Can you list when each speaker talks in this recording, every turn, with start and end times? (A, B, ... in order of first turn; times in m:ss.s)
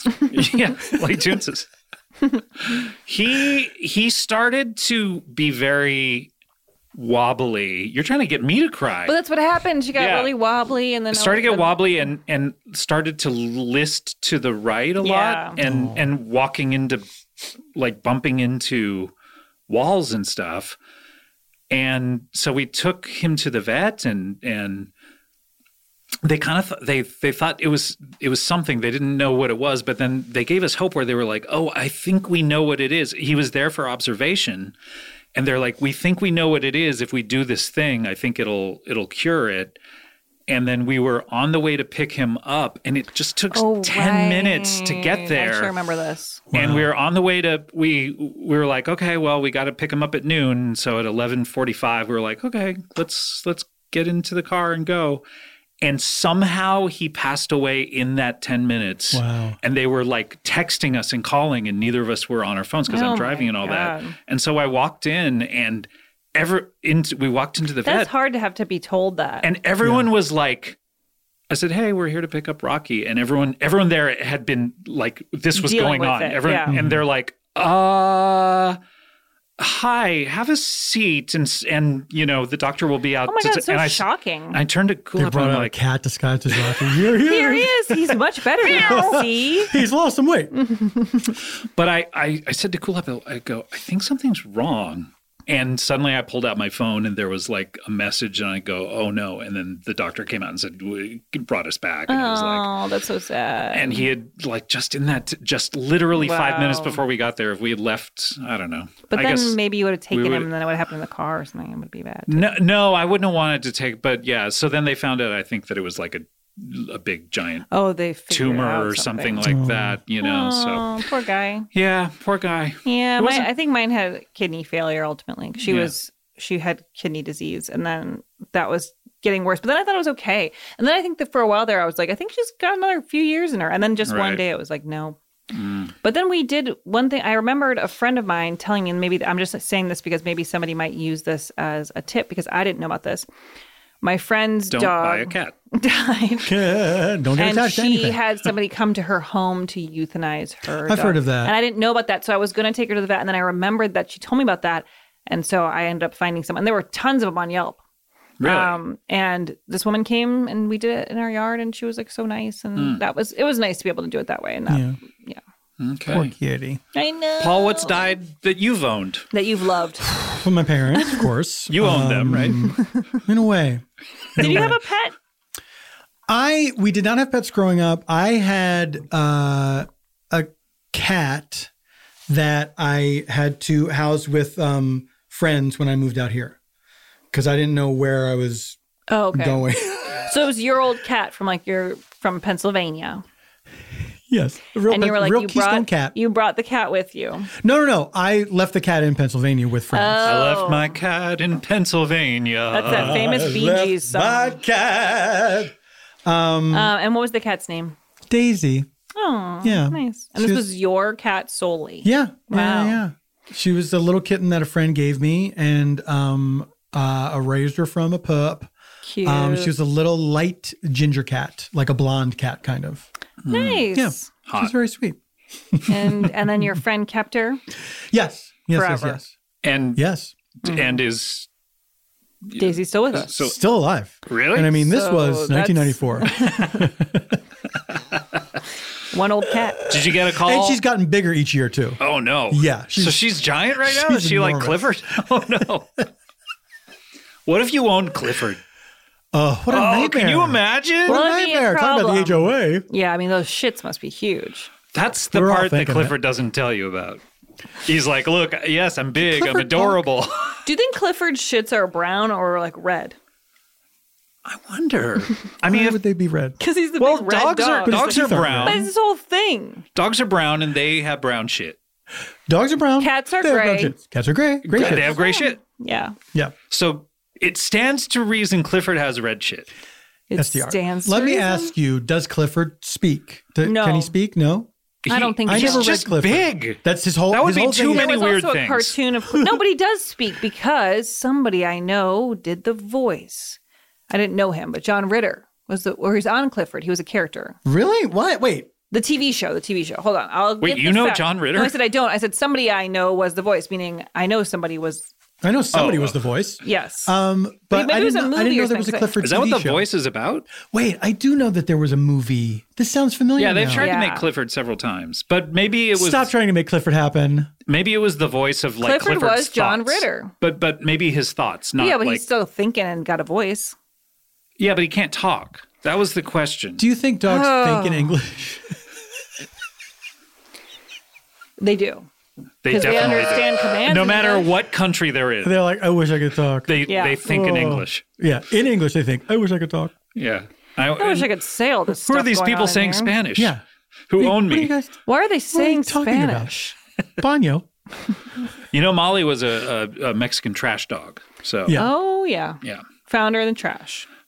0:00.3-0:01.7 A
0:02.7-0:06.3 A
0:06.9-0:09.1 A
0:09.0-0:12.0 B
0:09.9-0:10.3 A
0:11.1-0:17.0 A
0:15.0-0:15.6 B
0:15.6-0:16.0 C
0:17.8-0:19.1 A
0:19.7-0:20.8 A
0:21.7-0:24.9 A
0:26.2-0:34.7 A
0:35.4-0:39.8 A
0:40.5-0:45.7 A
0:43.5-0:46.4 B
0:46.5-0:46.9 C
0:46.5-0:55.2 A
0:55.8-1:08.1 A
0:59.1-0:59.6 C
1:02.9-1:04.1 B
1:07.8-1:09.5 B
1:09.4-1:10.8 A
1:09.8-1:10.1 C
1:11.5-1:18.8 A
1:15.5-1:16.7 B
1:16.7-1:17.0 C
1:19.6-1:25.8 A
1:23.2-1:24.6 B
1:25.2-1:27.9 C
1:26.5-1:26.9 A
1:27.2-1:29.8 B
1:28.7-1:30.5 C
1:28.7-1:29.1 A
1:30.5-1:31.3 B
1:31.8-1:42.7 A
1:42.1-1:44.1 B
1:43.7-1:50.5 A
1:46.1-1:47.0 B
1:49.1-1:52.5 B
1:52.3-1:57.7 A
1:57.7-1:59.4 B
1:58.3-2:00.9 A
1:59.4-2:00.0 C
2:00.2-2:01.7 B
2:01.7-2:03.5 A
2:02.8-2:15.2 B
2:05.6-2:05.9 A
2:14.0-2:14.4 A
2:15.5-2:15.9 A
2:16.0-2:23.2 B
2:24.0-2:26.6 B
2:24.7-2:25.5 A
2:26.4-2:28.2 C
2:27.4-2:37.8 B
2:30.8-2:31.5 C
2:38.4-2:38.8 A
2:38.4-2:45.4 B
2:42.8-2:43.0 A
2:44.7-2:45.0 C
2:45.8-2:46.3 A
2:46.1-2:46.8 C
2:46.9-2:48.2 B
2:47.4-2:49.2 A
2:49.3-2:50.2 B
2:50.1-2:53.8 C
2:51.0-2:51.2 B
2:51.7-2:52.7 A
2:54.4-2:54.8 C
2:54.4-2:55.1 B
2:56.3-3:01.7 C
3:02.3-3:06.6 C
3:07.3-3:08.8 C
3:09.1-3:13.2 B
3:09.3-3:10.3 C
3:14.3-3:16.1 C
3:14.9-3:17.5 B
3:17.6-3:20.4 C
3:19.9-3:21.0 B
3:20.2-3:23.2 A
3:22.7-3:24.6 B
3:22.9-3:25.7 C
3:26.2-3:26.9 C
3:26.7-3:28.0 B
3:28.3-3:28.9 C
3:29.1-3:33.0 B
3:29.6-3:30.6 C
3:32.0-3:38.7 C
3:39.0-3:39.7 B
3:39.2-3:43.1 C
3:43.4-3:43.9 A
3:43.5-3:44.3 B
3:43.9-3:45.2 C
3:44.4-3:44.7 A
3:45.7-3:46.4 C
3:45.9-3:47.6 B
3:48.1-3:49.3 C
3:48.7-3:49.2 B
3:49.6-3:50.0 A
3:50.0-3:50.3 C
3:50.6-3:51.5 A
3:50.6-3:51.0 B
3:52.5-3:53.6 A
3:52.6-3:53.3 B
3:53.4-3:57.4 C
3:54.2-3:54.8 A
3:54.8-3:56.9 B
3:59.1-3:59.8 B
3:59.9-4:00.8 A
4:00.4-4:02.0 C
4:02.0-4:06.0 A
4:02.5-4:03.3 C
4:03.8-4:04.9 C
4:07.5-4:08.6 A
4:09.3-4:12.8 C
4:09.7-4:11.2 A
4:11.1-4:14.7 B
4:14.9-4:17.2 A
4:15.3-4:16.1 C
4:17.8-4:20.6 A
4:19.2-4:20.0 C
4:20.6-4:23.2 B
4:24.4-4:26.0 A
4:25.6-4:26.6 C
4:26.6-4:29.8 B
4:27.0-4:28.8 A
4:27.8-4:28.9 C
4:30.0-4:31.8 A
4:32.5-4:35.2 C
4:33.0-4:34.0 B
4:34.7-4:35.6 A
4:34.8-4:36.2 B
4:36.7-4:39.7 A
4:40.3-4:41.7 B
4:40.4-4:44.7 C
4:43.6-4:44.1 B
4:45.0-4:49.0 A
4:45.1-4:46.0 B
4:45.4-4:48.2 C
4:47.9-4:53.6 B
4:49.3-4:49.6 C
4:54.1-4:57.6 B
4:57.6-4:58.7 C
4:58.9-5:05.1 B
5:00.6-5:01.8 A
5:05.4-5:09.8 C
5:05.7-5:06.2 A
5:06.6-5:07.1 B
5:07.7-5:09.1 B
5:09.2-5:10.5 A
5:10.6-5:13.9 C
5:13.4-5:16.3 A
5:13.8-5:14.3 B
5:16.0-5:17.5 C
5:17.7-5:22.2 A
5:18.8-5:20.3 B
5:21.8-5:23.8 B
5:24.6-5:26.8 A
5:26.8-5:28.8 C
5:27.2-5:28.2 B
5:31.6-5:32.1 B
5:32.6-5:35.6 A
5:32.7-5:34.5 B
5:35.4-5:39.9 C
5:36.7-5:38.0 A
5:36.9-5:37.2 B
5:40.1-5:41.3 A
5:41.0-5:43.1 B
5:41.9-5:43.6 A
5:43.4-5:43.6 C
5:44.1-5:44.7 A
5:44.2-5:45.0 C
5:45.0-5:46.8 B
5:45.5-5:46.5 C
5:47.2-5:47.7 C
5:48.7-5:51.8 A
5:51.7-5:54.1 B